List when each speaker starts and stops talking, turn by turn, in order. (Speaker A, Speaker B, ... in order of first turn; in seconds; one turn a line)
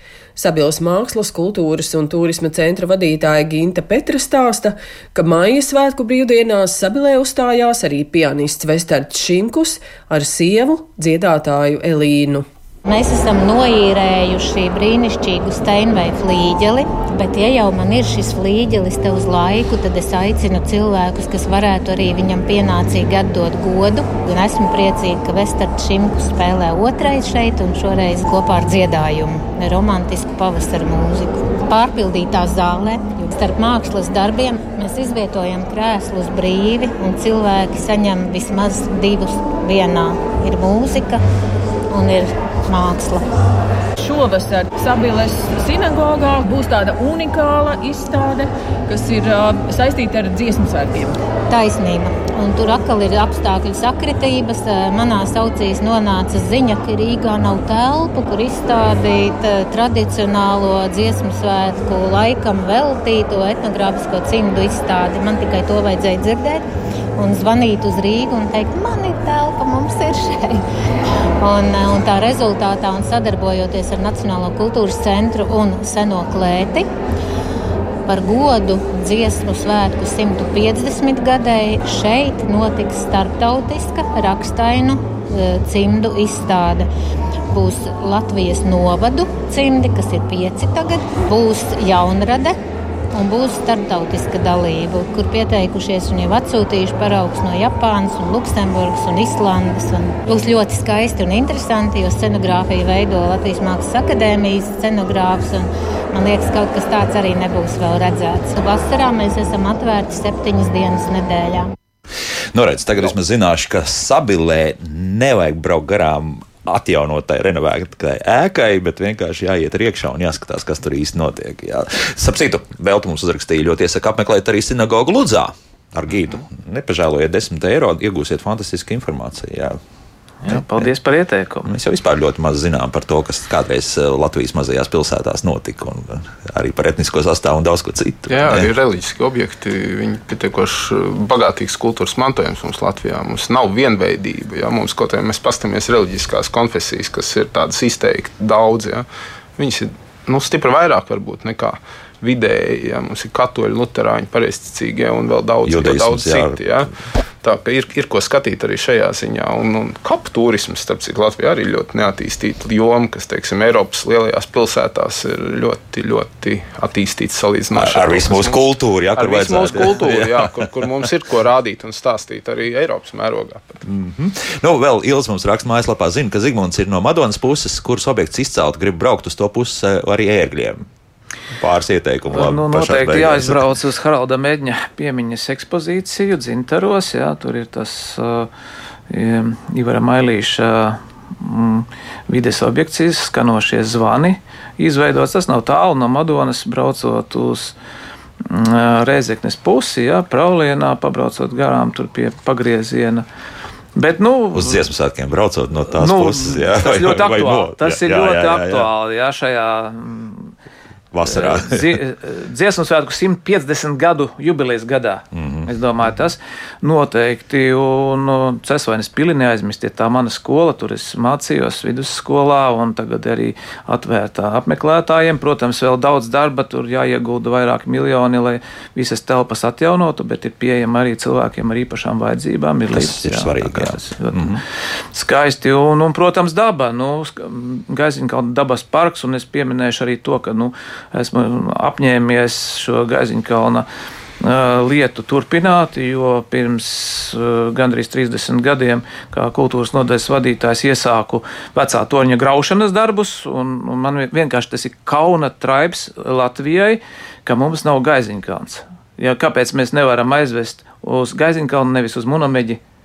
Speaker A: 0.4-12.5
Speaker B: 12.9-41.2
Speaker B: 41.9-43.3
Speaker C: 44.0-51.2
Speaker B: 51.5-66.7
Speaker B: 67.2-70.7
Speaker B: 71.4-76.9
Speaker B: 78.1-86.9
Speaker B: 87.5-92.6
Speaker B: 93.1-111.7
Speaker D: 112.5-129.8
Speaker E: 130.4-131.7
Speaker D: 130.4-130.9
Speaker D: 131.7-138.7
Speaker F: 138.3-149.1
Speaker F: 149.6-156.9
Speaker D: 155.6-156.7
Speaker F: 157.4-168.6
Speaker D: 167.8-171.0
Speaker F: 169.2-173.8
Speaker D: 173.9-180.9
Speaker D: 181.6-183.7
Speaker E: 182.3-188.5
Speaker E: 189.1-197.8
Speaker E: 198.4-203.2
Speaker E: 203.9-204.9
Speaker D: 204.5-208.9
Speaker E: 205.9-210.5
Speaker D: 211.1-212.0
Speaker E: 211.3-234.6
Speaker D: 215.3-215.7
Speaker D: 232.9-234.6
Speaker E: 235.1-243.9
Speaker E: 244.4-262.8